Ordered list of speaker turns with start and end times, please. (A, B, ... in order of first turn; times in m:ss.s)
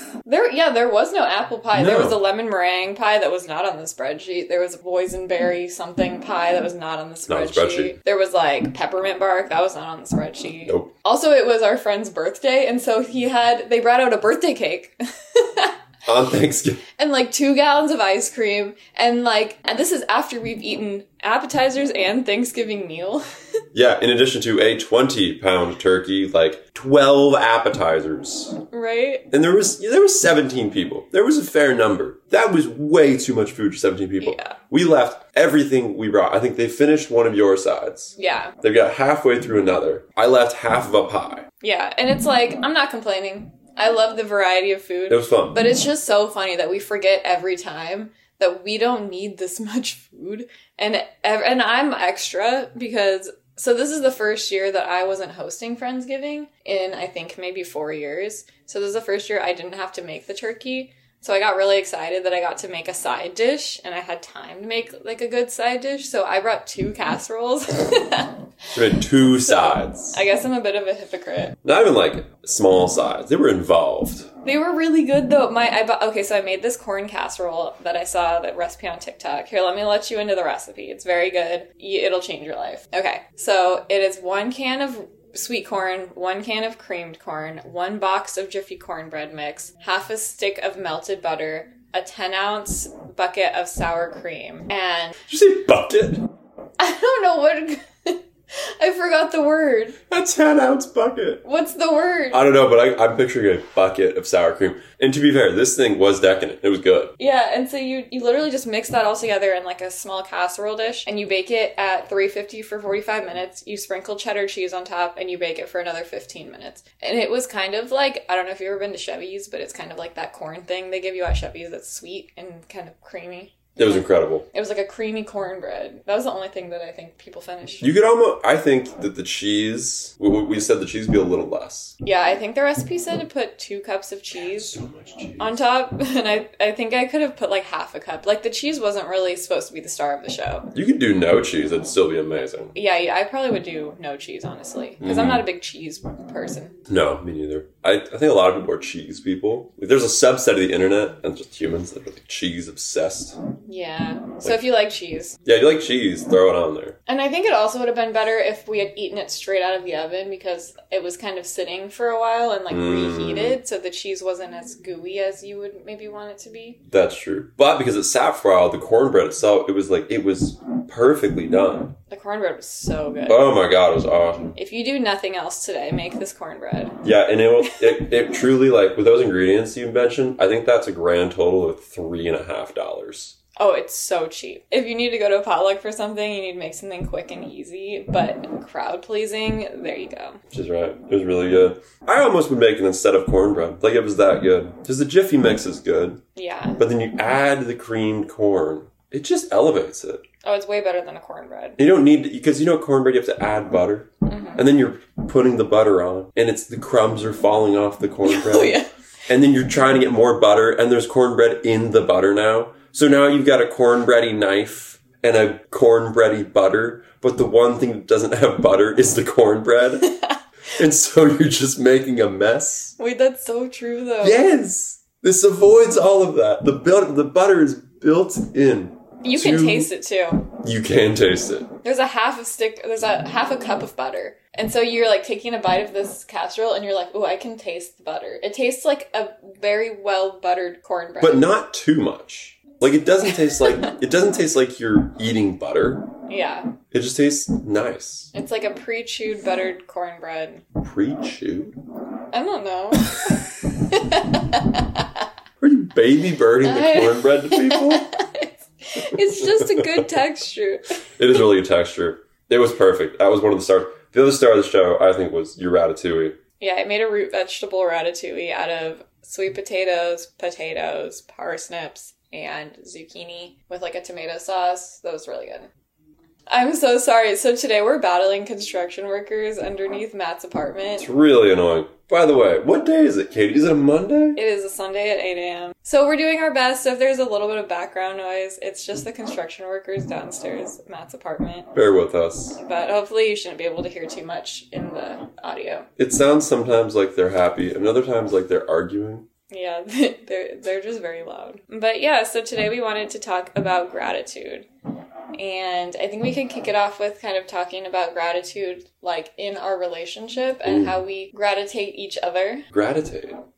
0:00.2-0:15.7 A
0:01.7-0:02.2 B
0:07.3-0:07.9 B
0:16.0-0:16.8 B
0:17.0-0:23.2 A
0:23.7-0:28.6 B
0:28.7-0:29.2 A
0:29.3-0:41.5 B
0:34.2-0:34.6 A
0:38.2-0:38.5 A
0:41.6-1:11.6 A
0:45.1-0:45.6 B
1:08.7-1:10.2 B
1:11.6-1:14.3 B
1:14.4-1:35.2 A
1:35.3-1:36.3 B
1:36.8-1:40.0 A
1:40.1-1:41.4 B
1:41.4-1:42.4 A
1:42.3-1:47.1 B
1:47.2-2:07.9 A
2:03.8-2:04.4 B
2:07.8-2:11.9 B
2:12.0-2:14.7 A
2:14.5-2:15.6 B
2:15.4-2:20.7 A
2:20.7-2:22.7 B
2:22.7-2:26.7 A
2:25.0-2:25.4 B
2:26.9-2:33.4 B
2:33.6-2:35.4 A
2:35.4-2:37.0 B
2:37.1-2:46.8 A
2:42.7-2:43.6 B
2:46.9-2:52.0 B
2:52.1-2:53.5 A
2:53.3-2:54.6 B
2:54.6-2:57.0 A
2:57.0-3:03.3 B
2:57.6-2:58.0 A
3:03.6-3:10.4 A
3:10.5-3:16.2 B
3:16.3-3:16.8 A
3:16.8-3:20.2 B
3:20.4-3:21.8 A
3:21.8-3:40.1 B
3:24.2-3:24.6 A
3:28.2-3:28.9 A
3:40.0-3:40.4 A
3:40.7-3:43.0 B
3:43.0-3:44.4 A
3:44.2-3:49.9 B
3:49.2-3:50.5 A
3:50.6-3:51.7 B
3:51.8-4:01.5 A
4:01.2-4:06.1 B
4:03.2-4:03.9 A
4:06.3-4:06.7 A
4:06.9-4:08.3 B
4:08.3-4:10.6 A
4:10.8-4:11.8 B
4:12.3-4:15.2 A
4:15.6-4:18.1 B
4:16.6-4:20.8 A
4:19.0-4:20.1 B
4:21.2-4:26.4 B
4:26.6-4:35.7 A
4:36.5-4:41.0 A
4:41.0-4:44.4 B
4:44.4-4:51.7 A
4:51.7-4:52.6 B
4:52.6-4:55.9 A
4:56.0-4:59.3 B
4:59.5-5:04.6 A
5:05.3-5:12.7 A
5:10.6-5:11.0 B
5:12.7-5:13.4 B